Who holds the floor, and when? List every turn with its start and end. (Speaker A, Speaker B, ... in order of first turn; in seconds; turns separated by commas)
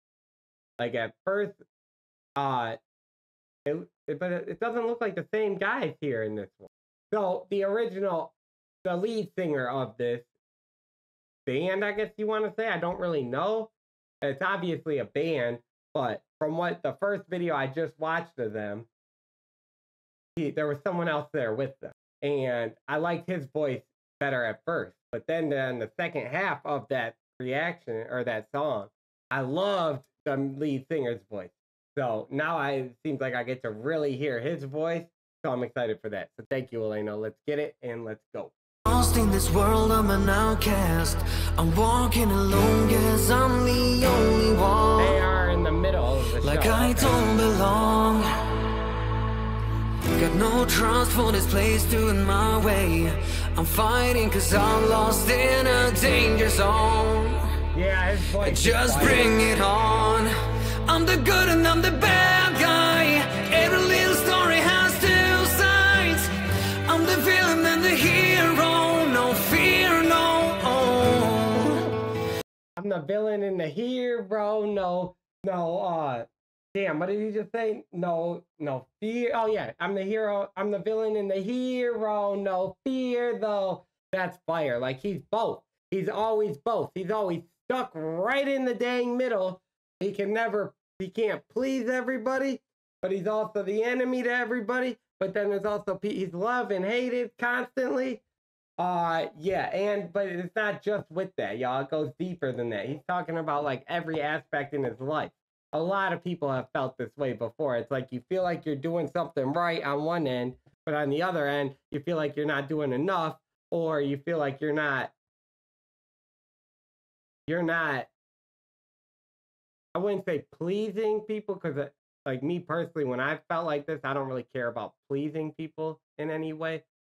Speaker A: 0.8-1.6, Speaker A: 2.4-2.8, Speaker A: 3.6-10.3, Speaker A: 11.5-18.9, Speaker A: 20.4-38.5, Speaker B: 38.9-45.2, Speaker A: 45.0-47.2, Speaker B: 46.4-48.3, Speaker B: 50.1-57.6, Speaker A: 57.7-59.5, Speaker B: 58.4-66.3, Speaker B: 66.8-71.9, Speaker A: 72.8-98.2, Speaker A: 98.8-115.1, Speaker A: 117.5-118.1, Speaker A: 120.0-126.8